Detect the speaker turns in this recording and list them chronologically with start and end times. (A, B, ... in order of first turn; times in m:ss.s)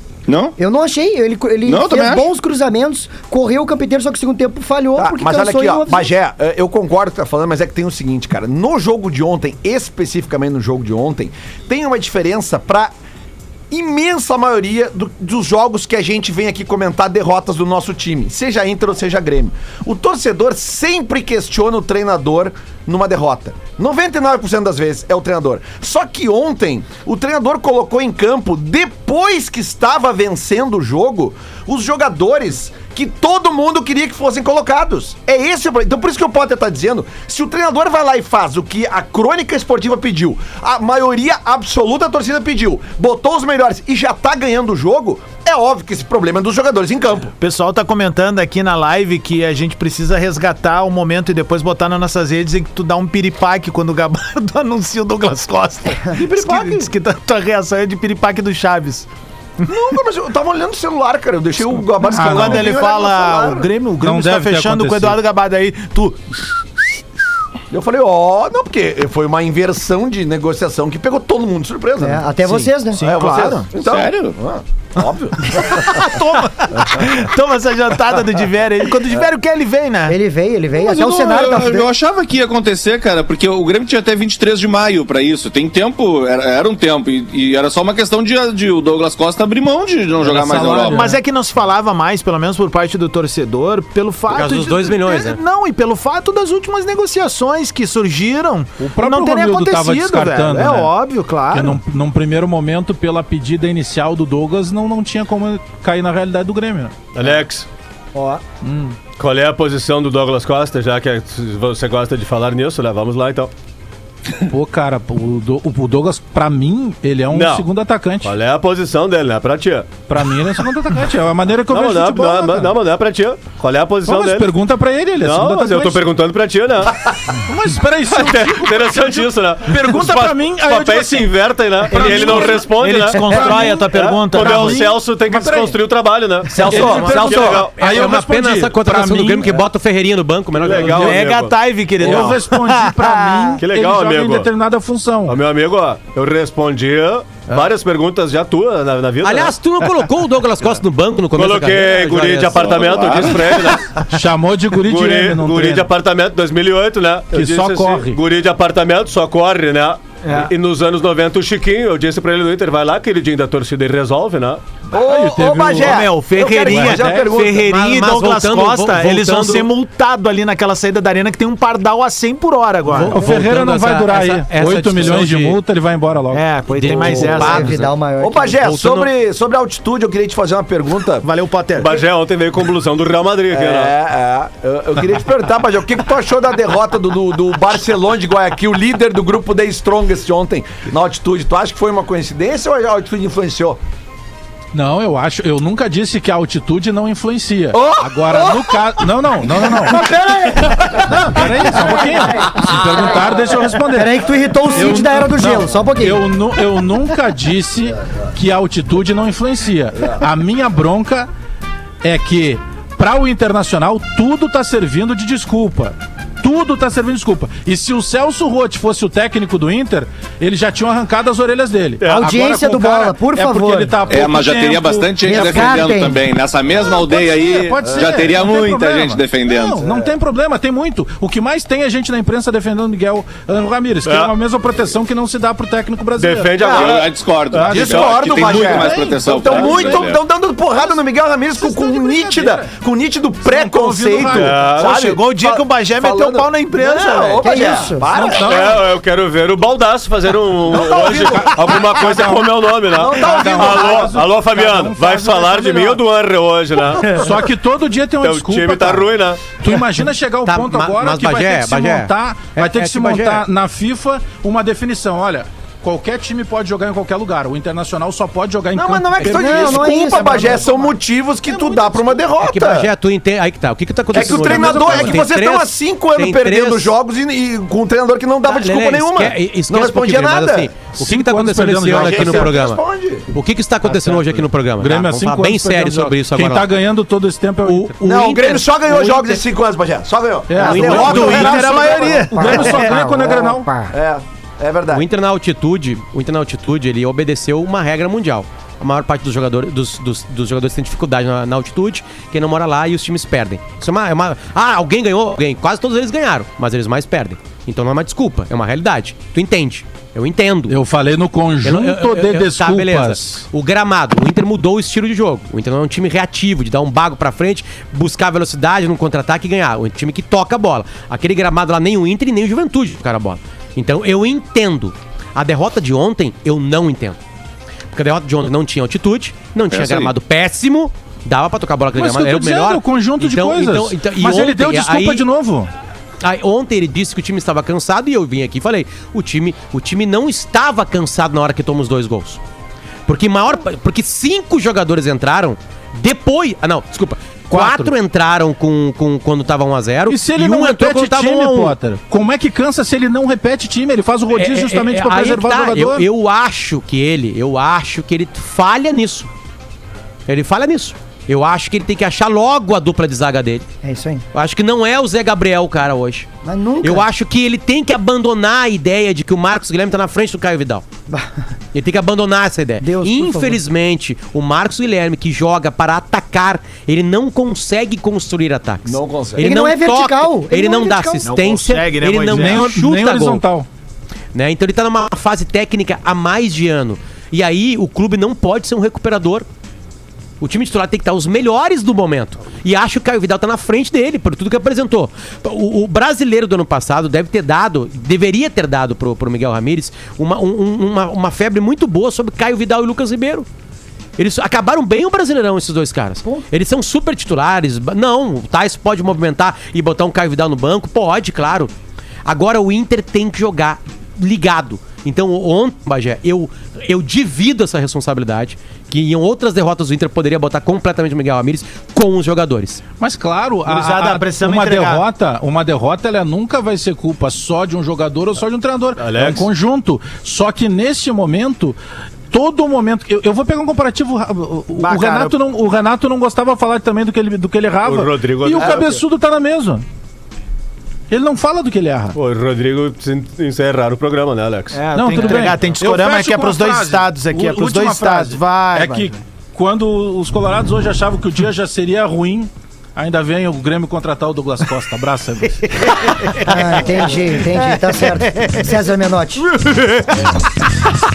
0:00.3-0:00.5 A
0:00.6-0:06.1 B
0:01.6-0:02.3 A
0:05.0-0:12.9 C
0:13.7-0:47.3 C
0:47.4-0:59.1 D
0:56.2-0:56.9 C
0:59.7-1:03.7 C
1:02.0-1:02.6 E
1:02.0-1:06.4 D
1:04.0-1:05.2 E
1:07.7-1:12.3 C
1:12.0-1:13.1 B
1:12.9-1:16.0 C
1:13.0-1:13.7 D
1:13.8-1:14.4 A
1:15.5-1:20.2 D
1:20.1-1:21.9 B
1:20.7-1:31.1 A
1:30.2-1:31.1 E
1:30.8-1:41.8 D
1:34.3-1:35.4 F
1:38.8-1:40.9 E
1:41.5-1:47.4 E
1:47.1-1:47.7 G
1:48.6-1:49.0 E
1:49.2-1:53.5 G
1:54.4-1:58.3 E
1:57.3-1:57.7 G
1:58.2-2:00.0 G
2:00.1-2:02.8 E
2:01.7-2:04.5 G
2:04.0-2:06.1 E
2:05.2-2:07.4 G
2:07.4-2:15.8 E
2:08.1-2:17.8 G
2:12.0-2:14.9 D
2:16.5-2:19.6 E
2:16.6-2:17.6 D
2:16.7-2:21.3 F
2:20.5-2:22.4 G
2:20.9-2:23.6 D
2:22.0-2:25.4 E
2:23.6-2:24.5 G
2:25.2-2:29.6 G
2:29.2-2:32.7 F
2:31.3-2:34.0 G
2:32.5-2:33.8 A
2:34.1-2:35.9 E
2:34.8-2:44.6 G
2:37.3-2:38.2 E
2:40.2-2:40.5 D
2:44.9-2:47.7 C
2:45.0-2:46.0 E
2:45.8-2:53.2 D
2:46.7-2:47.4 E
2:47.4-2:49.7 F
2:52.8-2:55.6 F
2:53.1-2:56.5 E
2:56.3-2:57.9 D
2:56.7-2:57.8 F
2:57.2-2:58.6 B
2:58.2-3:01.3 C
2:58.6-2:59.1 F
3:01.2-3:02.0 D
3:01.8-3:03.9 G
3:03.5-3:13.8 C
3:14.7-3:20.1 E
3:17.7-3:18.9 C
3:19.9-3:21.1 B
3:19.9-3:20.8 C
3:21.2-3:31.3 E
3:21.7-3:22.6 B
3:23.9-3:26.2 B
3:32.0-3:45.8 E
3:42.0-3:42.2 G
3:42.0-3:44.0 B
3:44.1-3:49.9 A
3:45.2-3:46.2 B
3:47.0-3:56.9 E
3:47.8-3:48.1 C
3:54.0-3:54.3 G
3:56.2-3:58.7 G
3:56.6-3:57.0 C
3:56.6-4:00.2 A
3:57.5-4:00.1 E
3:57.8-4:08.8 C
4:01.6-4:02.7 E
4:03.4-4:04.8 E
4:04.3-4:04.9 G
4:04.8-4:07.6 D
4:07.4-4:08.3 B
4:08.1-4:08.8 E
4:08.3-4:17.4 G
4:10.7-4:16.0 E
4:10.7-4:11.6 C
4:12.9-4:14.2 C
4:17.0-4:30.6 E
4:18.2-4:19.6 G
4:20.4-4:23.4 F
4:28.7-4:32.9 C
4:29.2-4:30.9 B
4:31.4-4:32.3 E
4:32.4-4:36.9 F
4:34.1-4:40.7 C
4:34.1-4:35.2 E
4:38.4-4:46.7 F
4:41.0-4:42.5 E
4:41.9-4:43.3 C
4:43.8-4:47.9 E
4:47.6-4:49.4 F
4:48.0-4:52.6 C
4:50.5-4:53.7 E
4:50.6-4:51.6 F
4:51.0-4:52.6 D
4:52.1-4:53.9 B
4:53.9-4:55.0 C
4:54.9-5:10.7 F
5:10.7-5:13.4 E
5:11.6-5:27.2 F
5:27.9-5:35.2 F
5:29.7-5:30.1 A
5:31.9-5:35.7 E
5:36.2-5:42.4 F
5:43.1-5:51.8 F
5:47.5-5:47.9 E
5:50.1-5:56.0 E
5:54.3-5:59.3 F
6:00.3-6:03.7 F
6:03.8-6:04.2 B
6:04.3-6:06.3 F
6:06.4-6:07.0 B
6:06.8-6:10.9 F
6:11.7-6:23.4 F
6:12.8-6:13.6 B
6:18.8-6:19.5 C
6:19.4-6:21.4 B
6:21.2-6:22.7 D
6:22.3-6:23.7 E
6:24.3-6:29.4 F
6:30.4-6:43.5 F
6:44.2-6:51.7 F
6:52.2-7:02.8 F
7:03.0-7:11.8 E
7:03.6-7:05.0 D
7:09.0-7:09.5 G
7:12.3-7:19.8 E
7:14.8-7:15.3 D
7:17.8-7:19.0 G
7:21.1-7:22.2 E
7:22.2-7:25.5 G
7:24.7-7:29.2 D
7:24.9-7:35.8 E
7:35.6-7:38.7 D
7:36.4-7:39.5 B
7:39.4-7:40.4 D